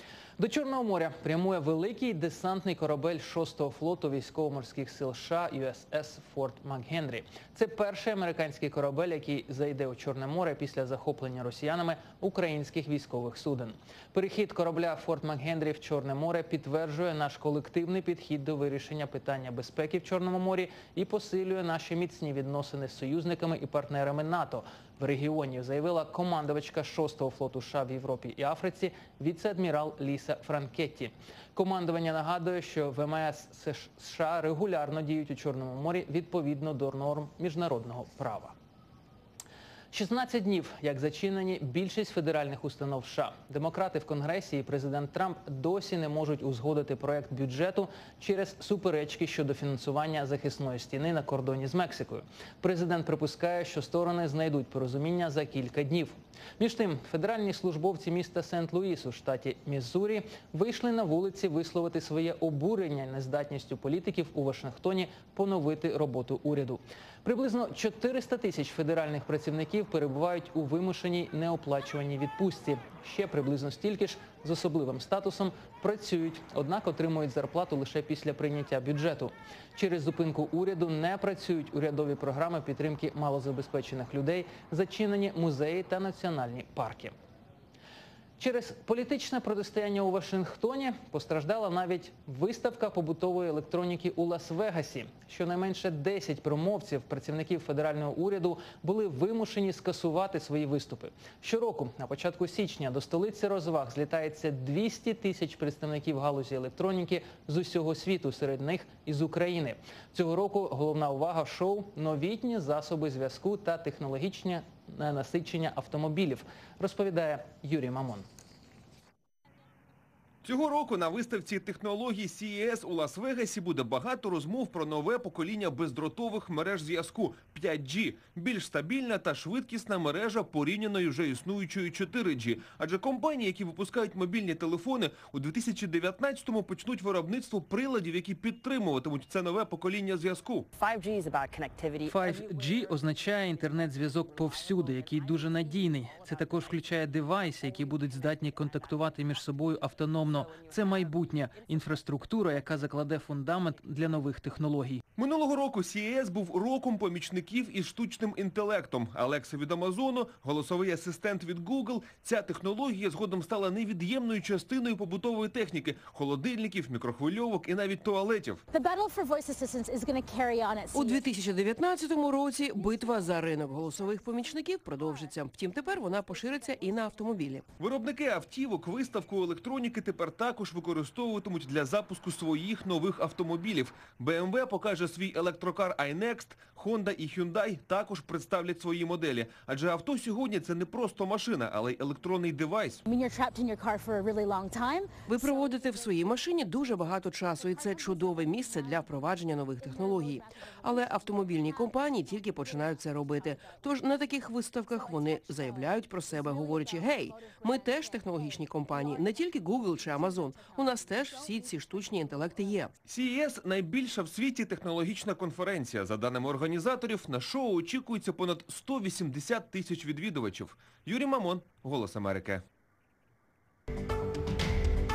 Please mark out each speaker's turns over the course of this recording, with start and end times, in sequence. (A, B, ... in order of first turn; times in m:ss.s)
0:00.4-0:38.6 A
0:39.9-1:27.2 A
1:28.4-1:58.3 A
2:00.4-2:20.7 B
2:20.8-2:22.8 C
2:22.1-2:35.0 A
2:35.2-2:48.6 B
2:48.7-2:51.2 D
2:50.9-2:57.7 E
2:57.8-3:13.0 B
3:13.1-3:16.0 D
3:15.3-3:32.9 E
3:17.8-3:19.1 D
3:19.8-3:20.4 D
3:21.0-3:21.9 D
3:25.8-3:29.3 D
3:30.0-3:31.6 D
3:33.1-3:42.6 B